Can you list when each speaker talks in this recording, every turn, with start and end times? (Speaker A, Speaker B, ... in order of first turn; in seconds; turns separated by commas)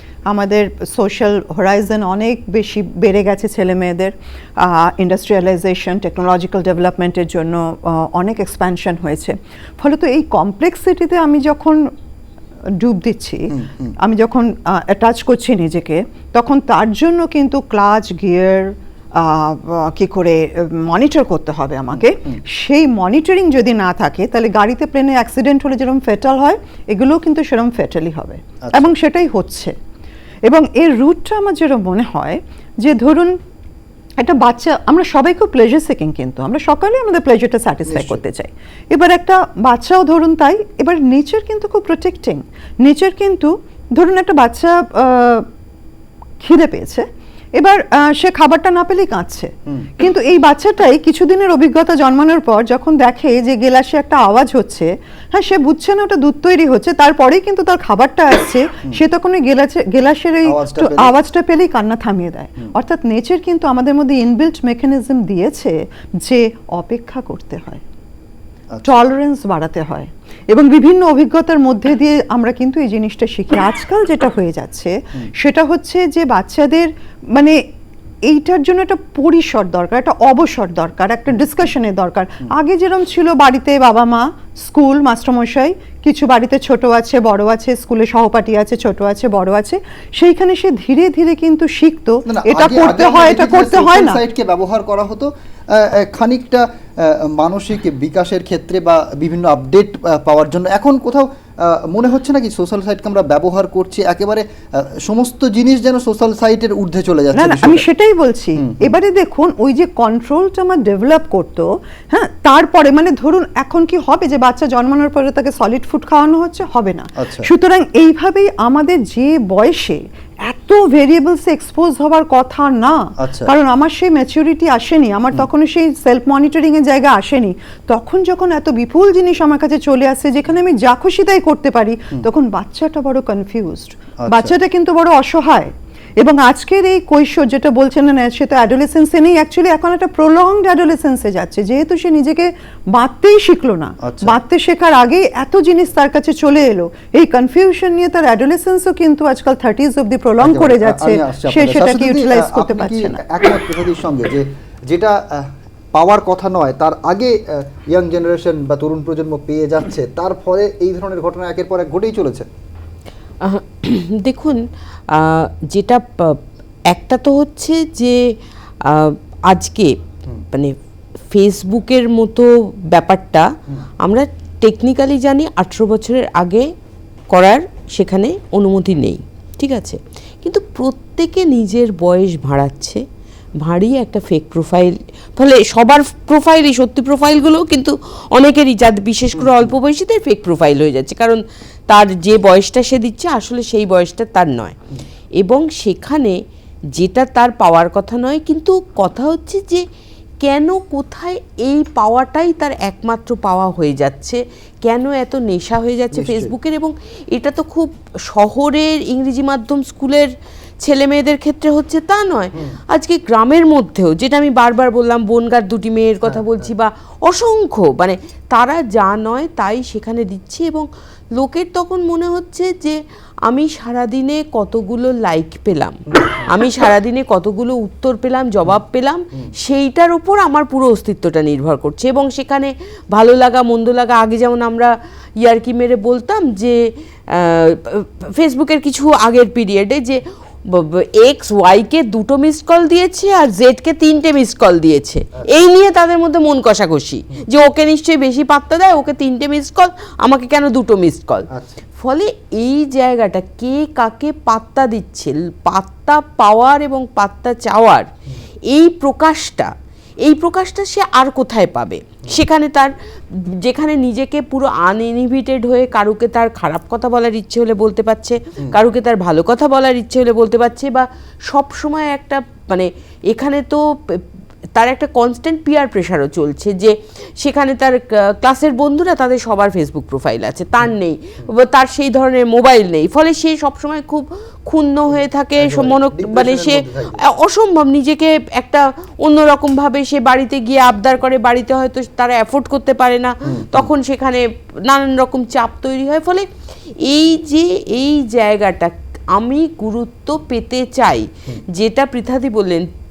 Speaker A: 0.3-11.8, Speaker A: 12.8-29.7, Speaker B: 13.5-13.9, Speaker B: 22.0-22.4, Speaker B: 28.6-28.9, Speaker A: 30.5-33.3, Speaker A: 34.2-45.5, Speaker B: 37.9-38.2, Speaker A: 46.4-47.0, Speaker A: 47.6-67.8, Speaker B: 60.4-61.1, Speaker A: 68.8-77.5, Speaker A: 78.3-94.2, Speaker B: 92.3-107.8, Speaker A: 107.3-153.2, Speaker B: 108.6-108.9, Speaker B: 117.2-117.5, Speaker B: 123.2-123.5, Speaker B: 134.2-134.5, Speaker B: 144.0-144.4, Speaker B: 150.4-162.5, Speaker C: 163.4-166.4, Speaker C: 166.9-168.2, Speaker C: 168.8-169.9, Speaker C: 171.3-173.5, Speaker C: 174.0-176.7, Speaker C: 177.3-183.0, Speaker C: 183.6-194.8, Speaker B: 189.4-189.7, Speaker C: 195.4-196.4, Speaker C: 197.0-199.8, Speaker C: 200.4-210.3, Speaker B: 206.1-206.5, Speaker C: 210.8-236.8, Speaker B: 216.2-216.5, Speaker B: 226.1-226.7, Speaker C: 237.3-251.5, Speaker B: 251.5-251.8, Speaker C: 252.0-258.1, Speaker C: 258.7-259.7, Speaker C: 260.2-262.9, Speaker C: 263.6-274.2, Speaker C: 274.8-296.4, Speaker B: 285.1-287.2, Speaker B: 293.4-293.9, Speaker C: 297.1-302.9